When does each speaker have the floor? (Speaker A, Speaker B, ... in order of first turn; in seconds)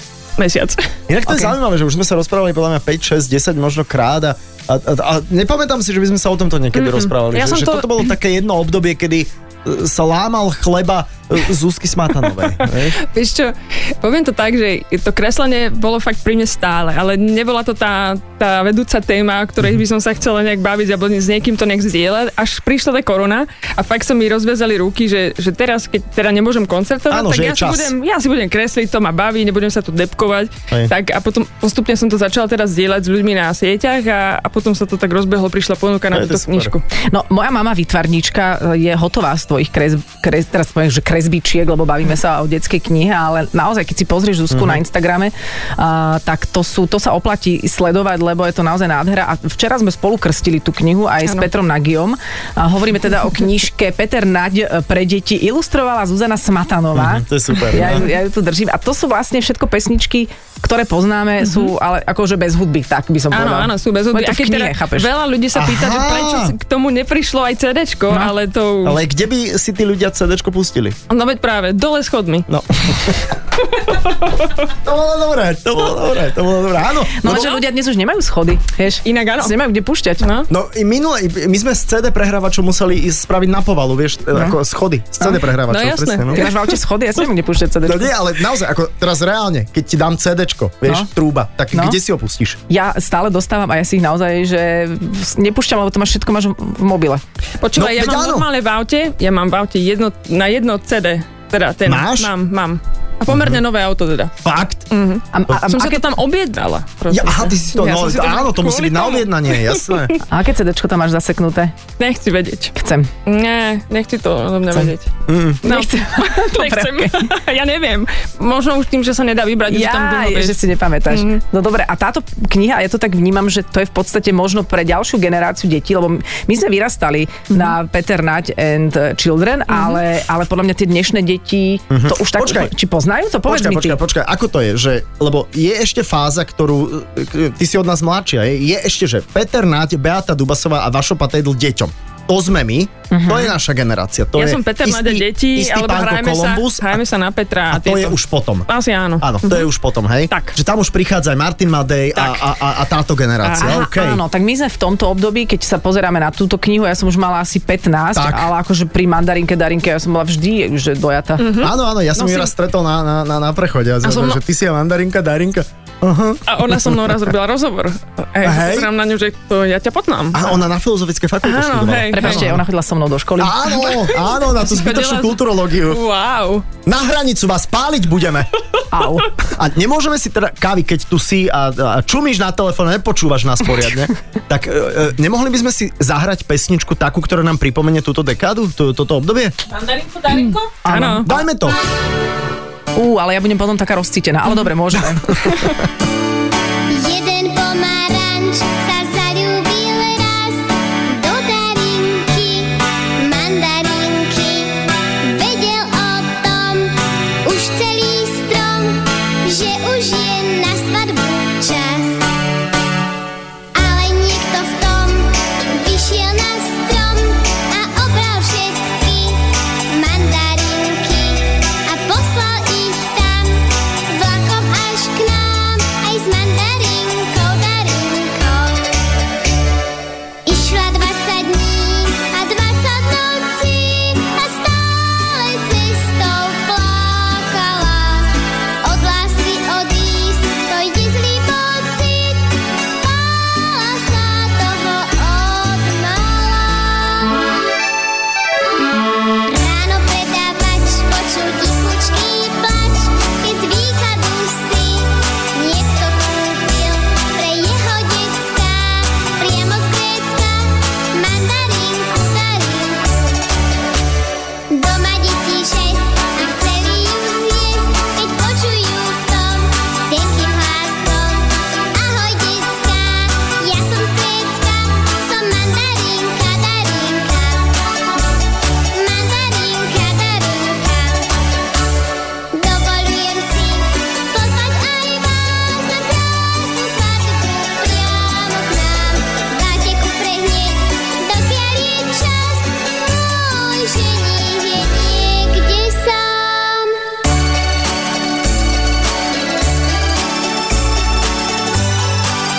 Speaker A: 0.4-0.9, 6.8-8.1, 12.9-36.8, 61.4-61.7, 63.3-69.0, 71.1-72.5, 73.7-74.7, 77.3-77.6, 79.0-79.5, 80.2-80.5, 85.7-86.7, 97.6-104.3, 104.9-110.2, 112.0-112.7, 113.3-115.1, 115.6-121.4, 129.7-130.0, 144.3-148.2, 148.7-149.7, 150.3-150.6, 152.2-152.5, 153.4-153.7, 161.4-162.5, 164.0-164.4, 166.5-170.6, 171.4-172.5, 173.7-176.7, 189.7-191.3
Speaker B: 1.1-13.0, 27.1-27.9, 36.1-36.7, 44.5-44.8, 57.0-58.1, 65.5-66.5, 68.8-71.0, 72.5-73.4, 74.8-77.5, 80.5-86.5, 87.8-92.6, 97.8-98.5, 101.9-102.3, 103.3-103.6, 104.4-104.9, 107.1-110.1, 115.3-115.6, 131.9-132.7, 133.5-147.0, 147.7-148.7, 149.2-154.2, 158.2-158.5, 161.6-167.1, 168.4-168.9, 170.3-172.7, 173.4-176.0, 176.9-178.5, 179.4-189.6, 191.2-191.8, 195.0-195.8
Speaker C: 37.0-65.1, 77.2-80.2, 86.3-88.1, 91.7-92.0, 92.7-97.2, 105.3-106.1, 110.3-111.7, 112.8-113.1, 115.6-117.3, 119.7-134.0, 143.1-143.5, 153.6-161.6, 172.1-173.7, 178.9-179.3, 190.4-191.4, 193.0-195.5
Speaker D: 196.9-212.3, 213.7-229.0, 230.4-247.7, 249.5-263.5, 264.7-278.4, 278.9-281.4, 282.5-297.1